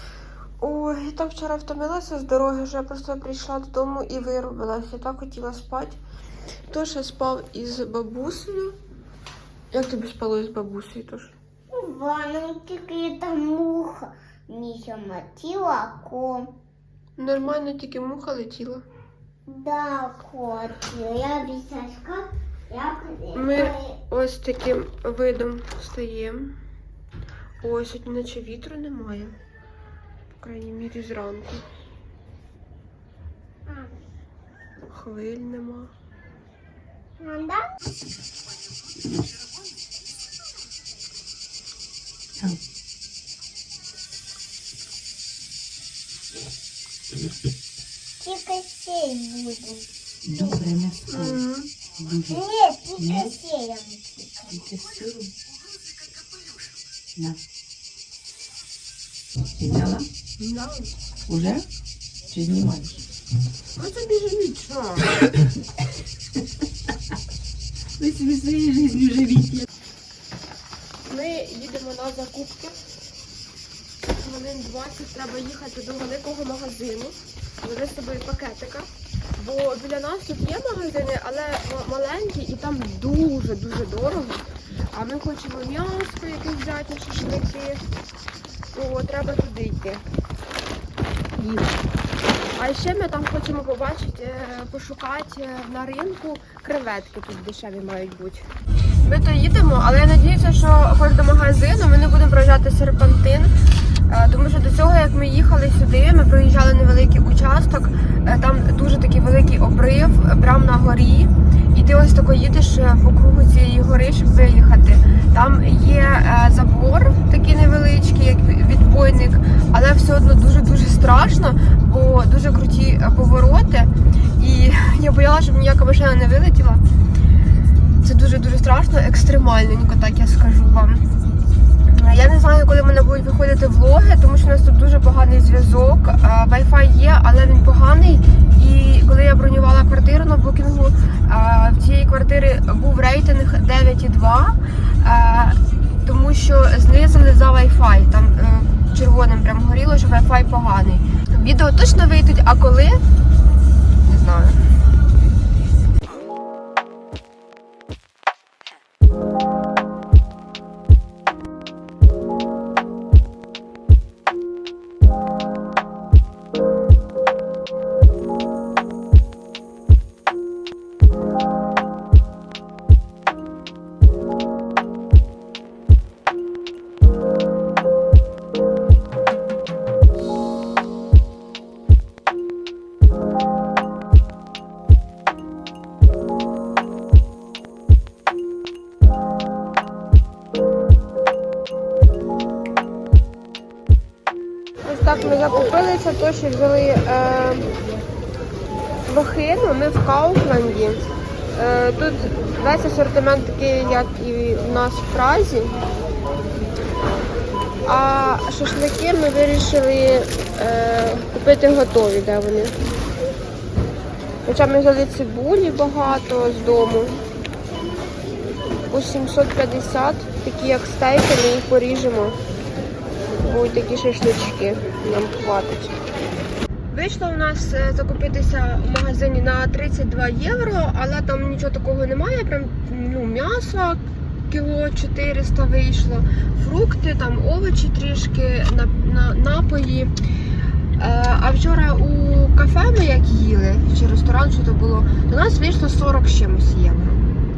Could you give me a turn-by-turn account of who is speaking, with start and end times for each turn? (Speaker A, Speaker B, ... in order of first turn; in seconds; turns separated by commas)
Speaker A: 0.6-6.0, Speaker A: 6.7-8.8, Speaker A: 9.7-11.3, Speaker B: 11.7-16.5, Speaker A: 17.2-18.8, Speaker B: 19.5-23.9, Speaker A: 23.3-26.6, Speaker A: 27.6-29.3, Speaker A: 30.4-31.6, Speaker A: 34.9-35.9, Speaker B: 37.2-37.7, Speaker B: 48.2-49.8, Speaker C: 50.2-51.4, Speaker A: 51.1-51.7, Speaker C: 52.0-52.4, Speaker B: 52.2-54.0, Speaker C: 53.0-53.3, Speaker C: 54.5-55.3, Speaker C: 59.6-60.1, Speaker A: 60.4-60.9, Speaker C: 61.3-61.7, Speaker C: 62.3-63.0, Speaker A: 63.8-65.2, Speaker C: 68.0-69.7, Speaker A: 71.1-72.8, Speaker A: 74.1-87.8, Speaker A: 88.7-90.0, Speaker A: 91.4-91.7, Speaker A: 92.5-98.5, Speaker A: 99.0-103.5, Speaker A: 104.1-126.8, Speaker A: 128.0-131.0, Speaker A: 131.9-153.0, Speaker A: 154.0-154.6, Speaker A: 194.8-197.7, Speaker A: 199.0-205.8, Speaker A: 207.8-212.7, Speaker A: 214.4-217.2, Speaker A: 218.9-222.4, Speaker A: 223.4-226.0, Speaker A: 226.9-240.1, Speaker A: 241.0-247.2